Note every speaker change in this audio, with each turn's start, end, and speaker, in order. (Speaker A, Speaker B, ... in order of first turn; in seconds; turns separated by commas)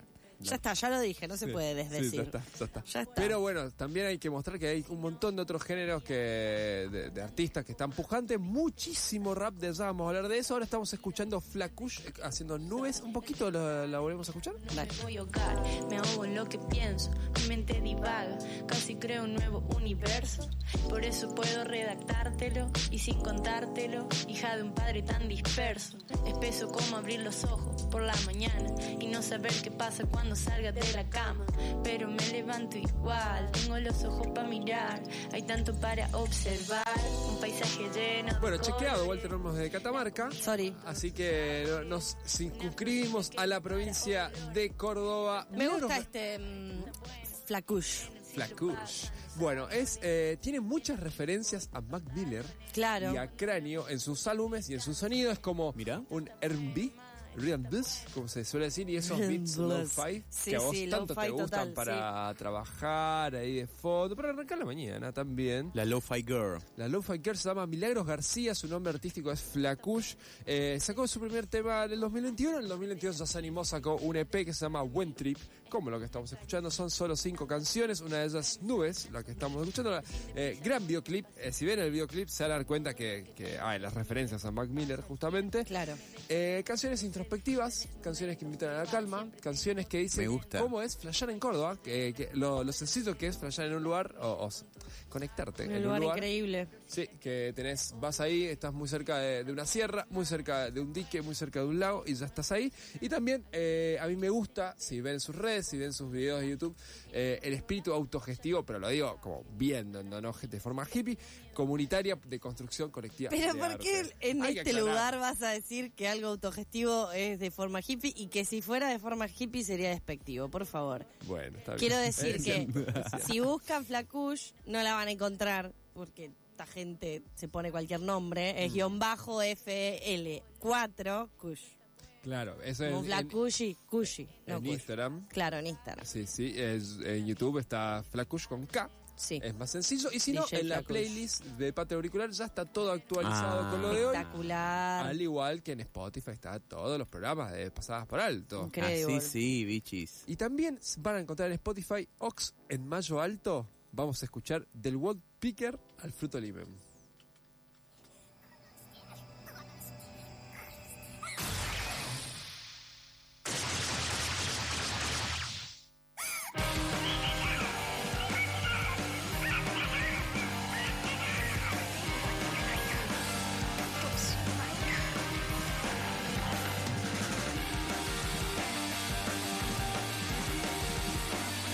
Speaker A: 0.4-3.4, Speaker B: 1.4-14.6, Speaker C: 14.7-39.1, Speaker B: 38.4-46.1, Speaker A: 40.4-40.8, Speaker A: 45.5-48.1, Speaker B: 48.3-65.8, Speaker A: 52.7-53.2, Speaker D: 55.8-56.1, Speaker A: 59.0-62.1, Speaker D: 65.7-66.6, Speaker B: 66.8-85.7, Speaker A: 85.7-86.0, Speaker B: 86.3-96.3, Speaker D: 90.1-90.7, Speaker A: 95.6-96.7, Speaker B: 96.9-115.1, Speaker A: 113.3-121.1, Speaker B: 121.2-123.5, Speaker A: 121.8-131.8, Speaker B: 128.6-129.0, Speaker B: 132.2-133.4, Speaker A: 132.8-136.1, Speaker B: 134.5-135.3, Speaker B: 136.0-144.3, Speaker A: 139.2-139.4, Speaker A: 140.3-141.2, Speaker D: 143.2-144.1, Speaker A: 143.9-145.2, Speaker B: 145.0-148.8, Speaker A: 148.6-149.4, Speaker D: 148.8-150.3, Speaker B: 150.3-156.8